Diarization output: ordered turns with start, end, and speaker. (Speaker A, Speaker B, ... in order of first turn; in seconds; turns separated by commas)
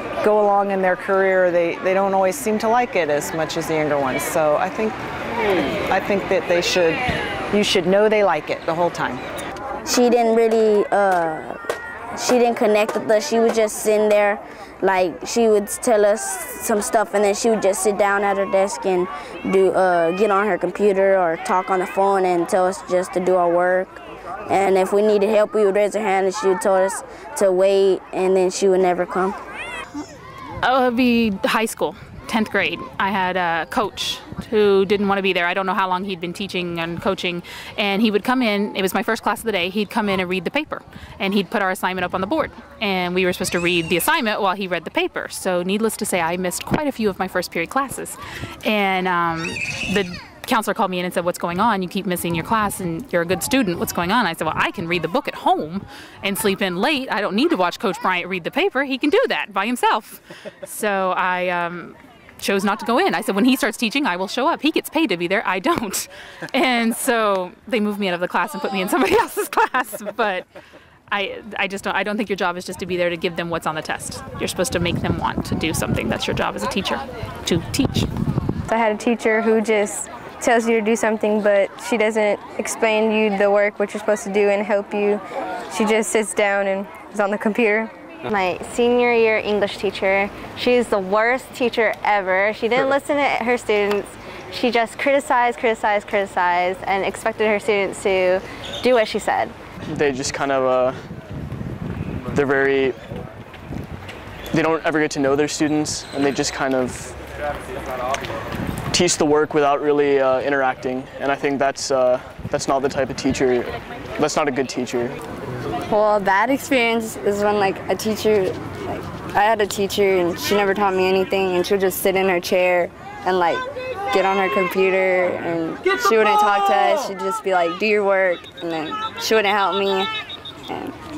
Speaker A: 0.2-5.0, Speaker A: 5.9-7.0, Speaker A: 7.5-9.2, Speaker B: 9.9-11.6, Speaker B: 12.2-29.4, Speaker C: 30.6-70.5, Speaker C: 71.1-78.1, Speaker D: 78.7-87.9, Speaker E: 88.3-99.5, Speaker F: 99.9-101.1, Speaker F: 102.3-103.0, Speaker F: 104.5-107.2, Speaker F: 108.9-115.2, Speaker G: 115.9-130.1